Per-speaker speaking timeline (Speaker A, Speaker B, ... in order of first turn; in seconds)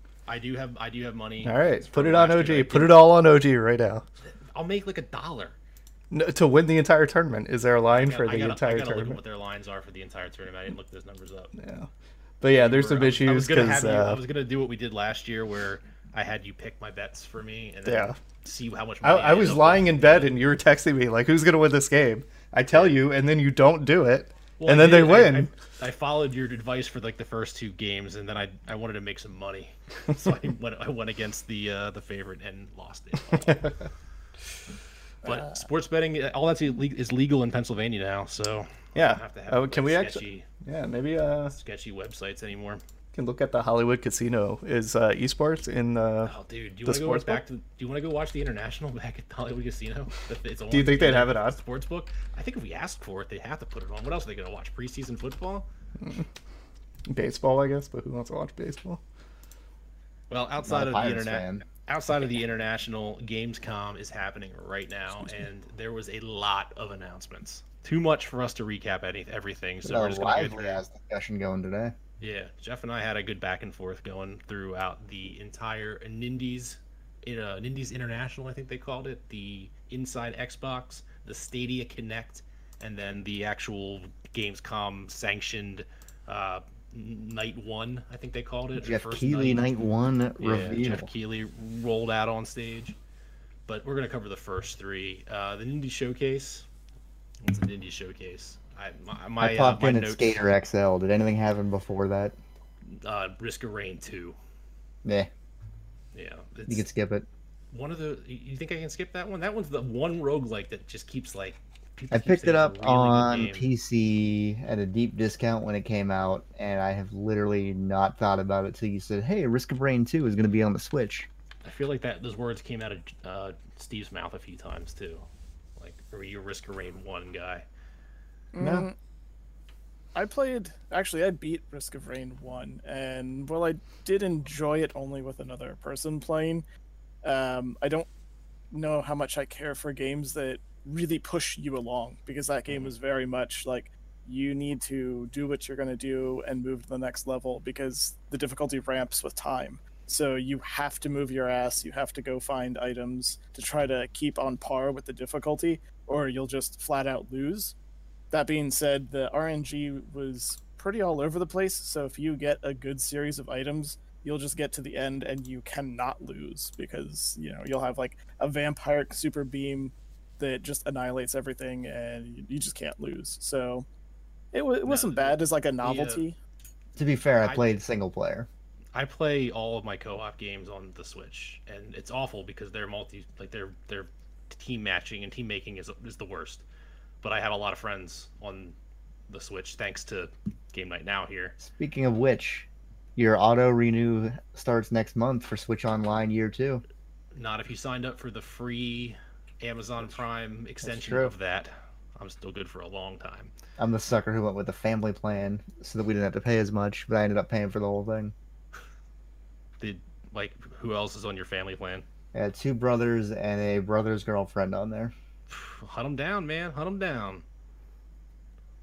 Speaker A: 0.2-3.0, 4.2-5.6, 7.9-11.5, 12.6-20.4, 22.7-23.0, 24.6-33.7, 35.2-40.5, 41.5-42.8, 46.2-55.7, 60.3-70.8, 72.2-89.7, 90.4-93.0, 93.7-96.7, 97.4-100.4, 102.8-104.4, 106.1-106.9, 107.7-113.7, 121.6-125.2, 125.8-127.7, 174.8-176.2, 177.4-177.7, 178.9-186.6, 187.2-188.7, 189.3-191.6, 197.3-203.5, 209.8-212.1, 215.5-217.4
Speaker B: 1.4-4.0, 6.1-9.2, 11.5-11.9, 12.4-14.2, 17.8-18.1, 19.0-25.5, 33.4-33.7, 38.9-41.5, 43.1-46.3, 46.9-47.4, 50.7-51.6, 56.0-56.2, 57.1-59.0
Speaker C: 60.6-61.6, 69.8-71.9, 88.8-91.1, 99.4-102.3, 106.7-107.2, 112.1-121.3, 128.6-128.9, 176.9-178.5, 191.6-196.8, 200.8-201.3, 203.8-208.3, 212.3-215.1
Speaker D: 128.5-128.9, 130.1-136.6, 137.2-138.1, 138.7-157.7, 158.3-173.8, 174.5-176.4